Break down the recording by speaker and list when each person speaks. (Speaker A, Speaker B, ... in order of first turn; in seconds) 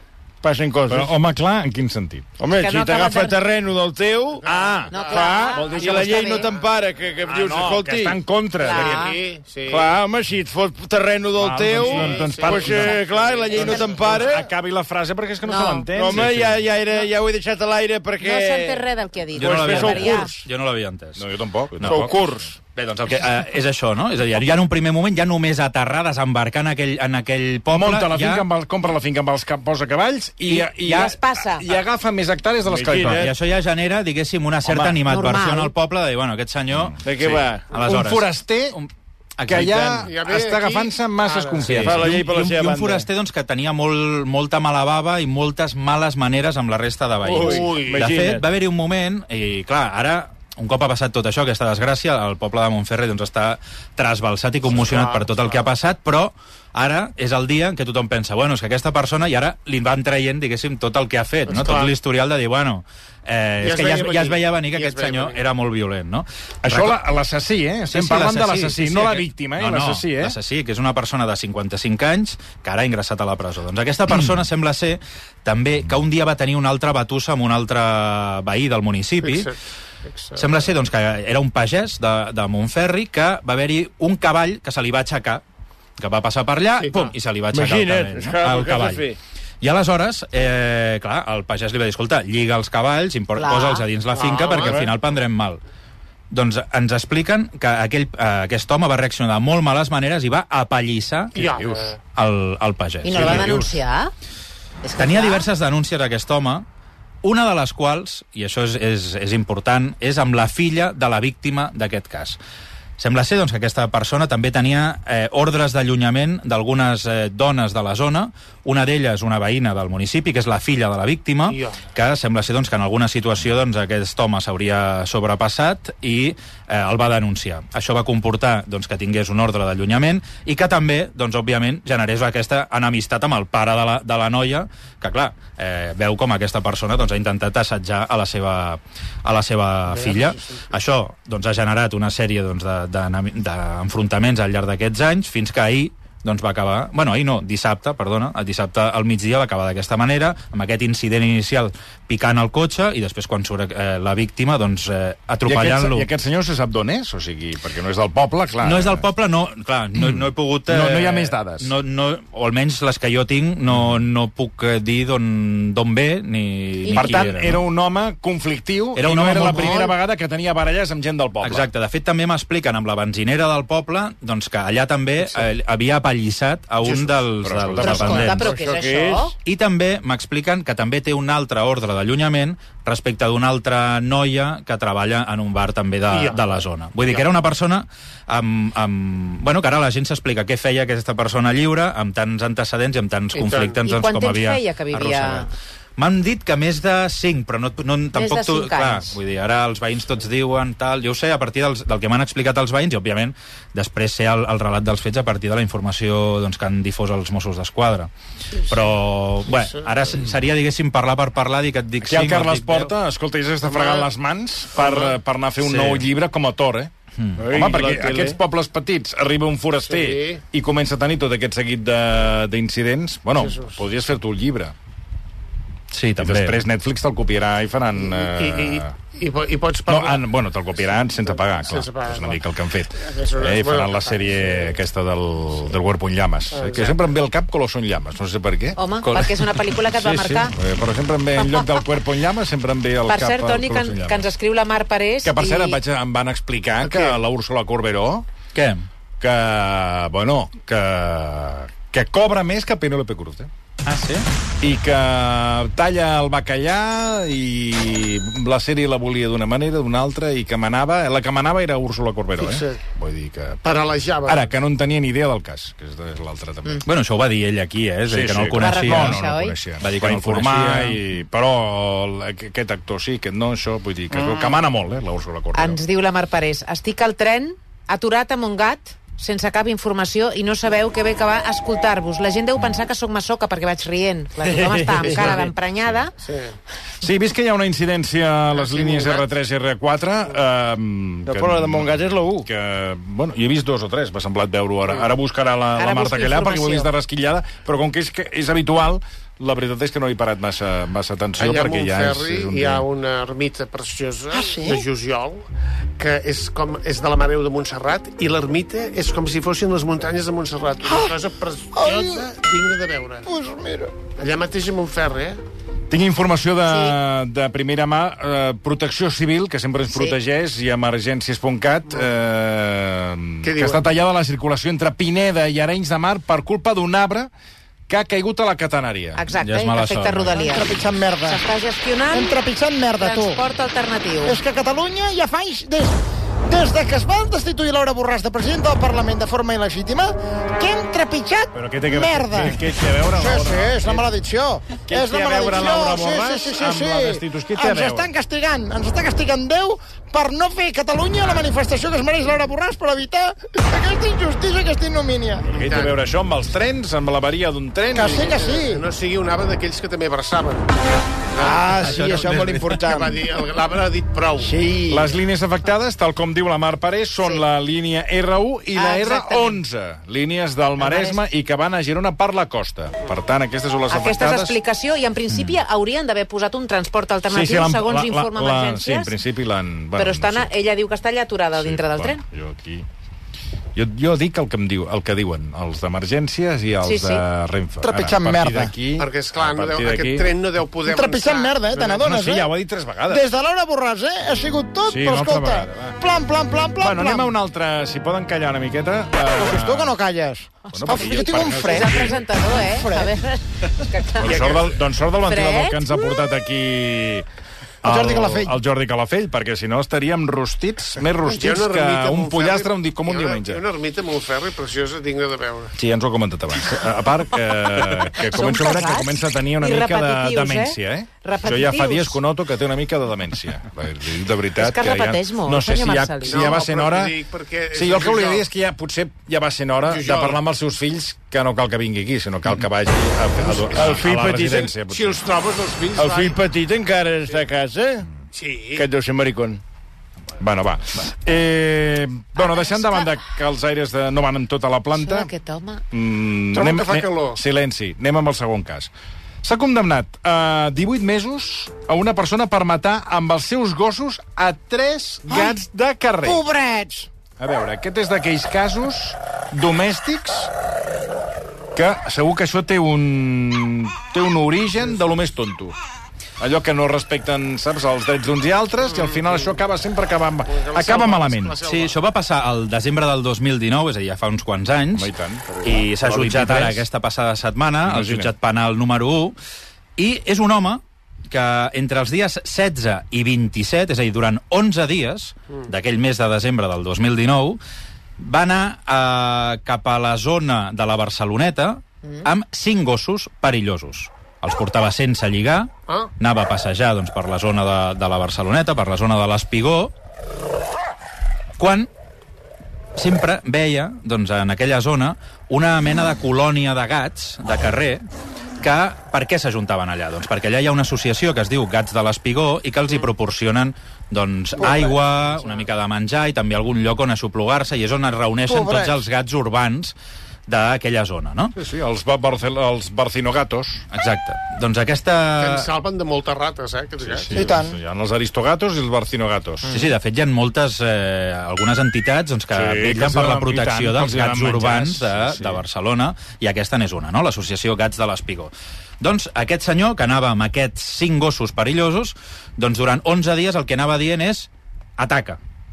Speaker A: 0.4-1.1, 2.4-4.5, 5.0-8.2, 9.7-14.5, 15.9-18.9, 19.4-20.4, 21.8-22.6, 32.6-33.3, 37.0-37.6, 39.6-40.0, 41.7-43.1, 47.2-48.4, 87.5-89.2, 94.6-94.9, 178.4-179.3, 217.4-218.4, 284.5-285.4, 291.3-292.5, 433.7-434.8, 436.0-438.1, 438.8-439.6
Speaker B: 0.9-2.3, 4.5-4.9, 5.7-6.2, 7.3-9.1, 11.4-16.6, 21.2-22.2, 27.7-33.3, 34.6-35.0, 37.7-38.8, 39.5-42.1, 66.6-70.4, 101.4-101.8, 103.1-103.7, 155.5-159.1, 160.0-161.7, 166.9-171.7, 177.4-178.4, 212.0-224.7, 226.2-229.0, 229.9-238.8, 239.8-244.3, 245.2-248.2, 249.2-253.5, 254.6-263.6, 264.3-266.9, 268.1-275.8, 284.7-285.4, 287.0-302.9, 315.9-327.3, 327.9-329.2, 341.6-344.1, 344.9-348.1, 355.5-358.3, 364.9-374.6, 377.3-380.5, 381.6-382.9, 383.8-390.3, 392.0-393.2, 394.9-396.0, 396.8-399.9, 400.7-402.2, 404.2-407.2, 407.8-413.6, 415.8-427.2, 427.7-435.2, 440.4-445.3, 445.9-448.9, 449.4-456.4, 457.4-460.5, 461.8-465.8, 466.4-471.6, 474.9-476.9, 477.9-478.3, 521.6-523.8, 527.0-529.7, 532.5-535.6
Speaker C: 2.6-3.4, 4.9-6.5, 8.6-9.2, 13.5-13.8, 15.4-15.9, 18.2-20.3, 30.8-31.8, 35.0-35.7, 93.3-93.8, 103.0-104.1, 104.8-105.5, 166.8-167.3, 169.4-169.9, 177.8-179.3, 193.8-195.5, 198.2-199.2, 238.8-240.5, 241.4-241.7, 243.1-245.8, 268.6-269.6, 275.5-286.1, 295.8-296.9, 316.7-317.0, 329.2-330.7, 331.3-332.4, 333.0-334.4, 368.7-369.6, 370.8-371.2, 373.9-379.1, 380.0-382.2, 386.8-387.2, 400.9-404.6, 405.2-406.2, 417.8-422.2, 424.6-426.6, 442.4-443.2, 445.0-445.8
Speaker D: 4.5-6.5, 8.6-9.9, 11.7-14.1, 40.0-41.7, 47.3-48.1, 54.7-55.6, 61.5-61.9, 63.6-65.4, 79.2-79.6, 80.1-80.5, 86.8-87.1, 94.1-94.8, 101.3-102.0, 121.5-121.8, 139.9-140.6, 176.8-177.1, 186.1-186.5, 193.3-193.8, 208.6-208.9, 209.5-209.9, 213.6-214.1, 214.8-215.2, 219.8-220.4, 223.3-223.8, 228.0-230.3, 230.9-232.4, 233.0-234.8, 236.5-237.0, 246.8-247.2, 262.4-262.8, 263.6-264.5, 274.1-274.6, 285.1-285.3, 286.2-286.6, 288.5-289.2, 301.4-305.5, 306.0-313.2, 314.2-315.4, 323.4-323.9, 355.5-356.0, 357.9-360.8, 361.3-364.6, 389.0-392.0, 404.2-404.6, 411.2-415.7, 426.2-428.5, 429.8-430.4, 434.9-436.4, 438.3-438.9, 446.6-447.4, 468.8-469.6, 470.5-472.0, 525.4-527.5
Speaker E: 19.4-21.2, 21.8-22.1, 22.8-28.5, 30.4-30.7, 33.0-39.9, 41.6-67.0, 67.9-79.5, 80.4-85.4, 86.0-89.0, 89.6-95.6, 96.3-101.5, 102.2-103.8, 105.0-106.7, 107.2-112.4, 113.0-156.1, 158.6-167.6, 168.9-169.9, 171.4-178.5, 179.4-208.1, 208.7-212.9, 215.6-216.1, 217.2-217.4, 225.9-226.6, 248.6-248.9, 253.8-254.3, 266.9-269.2, 269.8-271.0, 329.4-330.5, 361.8-362.8, 471.6-475.1, 475.6-479.4, 480.0-487.6, 488.2-499.9, 501.6-501.9, 503.0-508.0, 508.6-520.0, 520.5-521.5, 523.9-525.7, 529.7-545.4
Speaker F: 304.3-304.9, 310.8-311.2, 311.7-312.3, 313.3-313.9, 330.4-331.4, 332.1-333.4, 334.2-355.5, 357.9-358.8, 361.4-363.2, 364.4-365.1, 387.8-388.7, 390.9-392.5, 393.1-397.4, 399.3-403.1, 407.8-408.6, 446.5-447.1, 455.3-455.6, 456.2-457.1, 514.6-514.9, 518.5-519.0, 527.3-527.8